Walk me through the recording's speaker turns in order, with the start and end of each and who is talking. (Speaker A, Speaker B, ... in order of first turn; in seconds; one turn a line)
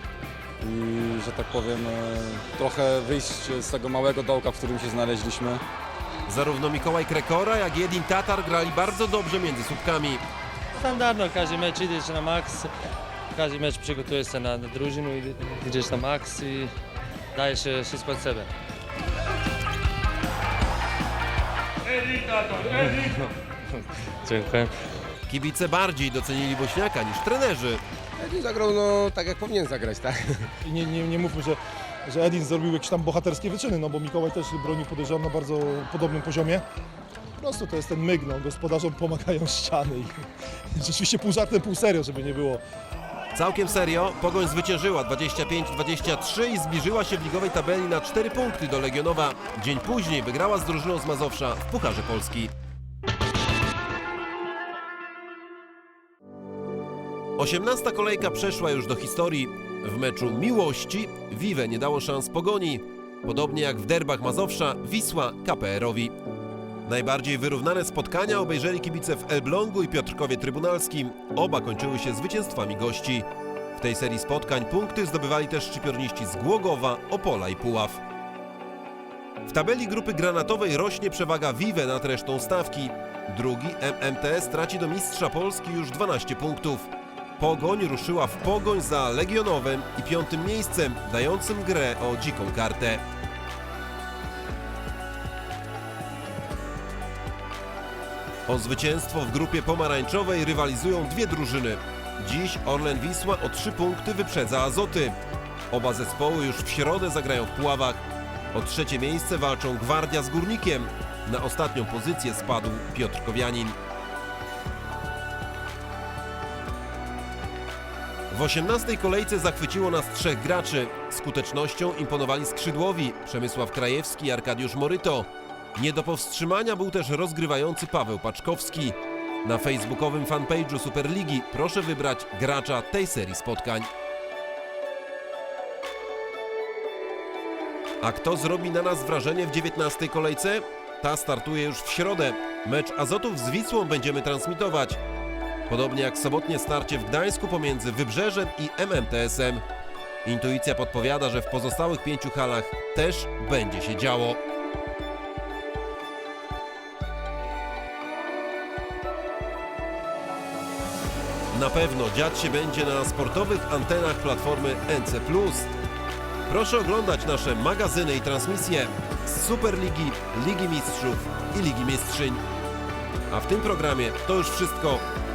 Speaker A: 0.6-5.6
Speaker B: 6.3-10.2
Speaker C: 10.8-12.7
Speaker C: 13.3-16.7
Speaker C: 17.4-18.5
Speaker B: 25.3-27.8
Speaker D: 28.2-30.5
Speaker E: 30.6-36.6
Speaker E: 37.4-40.1
Speaker E: 40.8-42.6
Speaker B: 43.4-52.5
Speaker B: 57.4-66.1
Speaker B: 66.9-78.0
Speaker B: 79.5-86.9
Speaker B: 87.4-93.0
Speaker B: 98.5-105.2
Speaker B: 105.7-113.8
Speaker B: 118.3-133.9
Speaker B: 138.0-145.0
Speaker B: 145.7-149.6
Speaker B: 150.2-154.4
Speaker B: 161.5-165.7
Speaker B: 166.5-172.4
Speaker B: 173.3-175.0